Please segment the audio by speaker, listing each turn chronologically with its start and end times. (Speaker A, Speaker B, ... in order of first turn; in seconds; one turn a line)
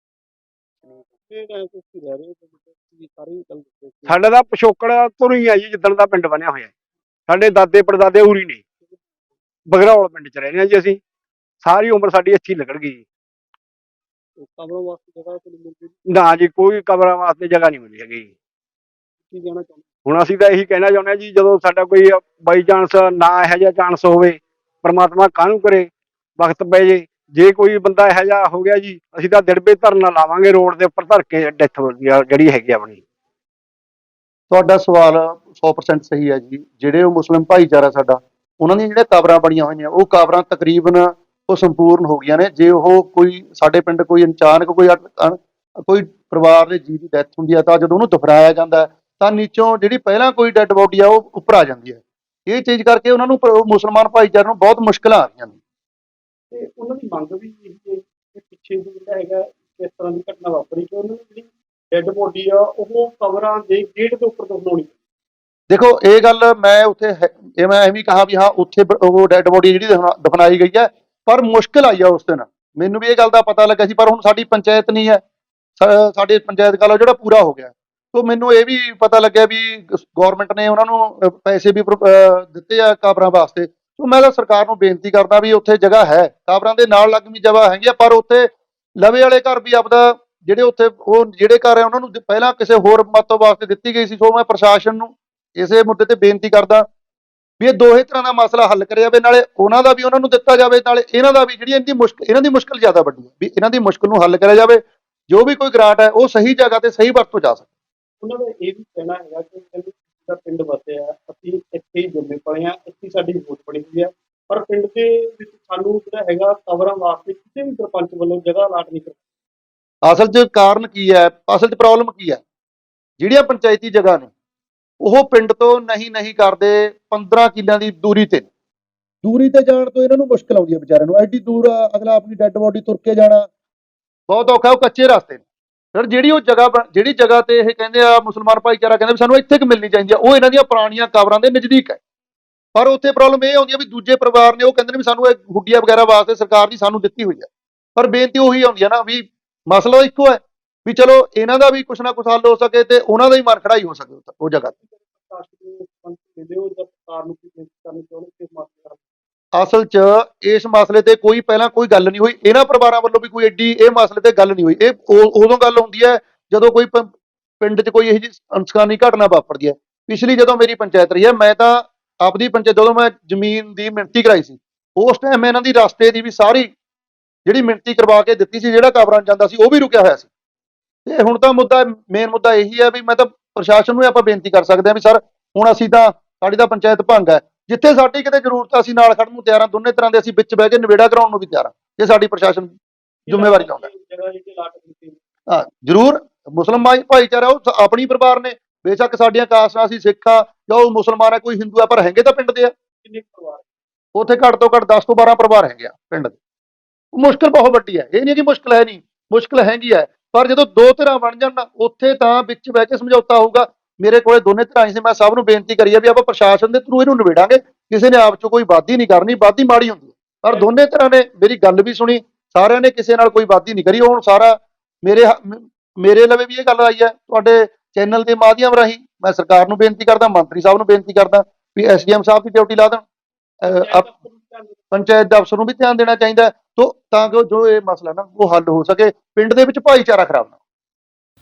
Speaker A: 0.8-4.2
Speaker B: 4.1-6.7
Speaker B: 7.3-8.6
Speaker B: 9.7-11.0
Speaker B: 11.6-13.0
Speaker A: 14.4-16.0
Speaker B: 16.1-18.3
Speaker A: 19.3-19.9
Speaker B: 20.1-33.0
Speaker C: 34.5-55.6
Speaker A: 56.5-64.9
Speaker C: 65.7-75.2
Speaker C: 75.8-96.9
Speaker C: 97.6-107.7
Speaker A: 108.2-119.2
Speaker C: 120.1-122.4
Speaker C: 123.2-124.3
Speaker C: 125.0-128.5
Speaker C: 129.2-133.5
Speaker C: 134.3-135.4
Speaker C: 135.9-142.0
Speaker C: 142.8-154.7
Speaker A: 154.6-159.0
Speaker C: 159.6-167.1
Speaker C: 167.6-176.7
Speaker C: 177.5-180.3
Speaker C: 181.1-192.7
Speaker A: 193.3-195.2
Speaker C: 193.3-193.9
Speaker C: 195.5-202.7
Speaker A: 203.0-203.6
Speaker C: 204.2-206.4
Speaker C: 207.1-233.0
Speaker C: 233.6-234.1
Speaker A: 233.7-234.8
Speaker C: 234.9-240.5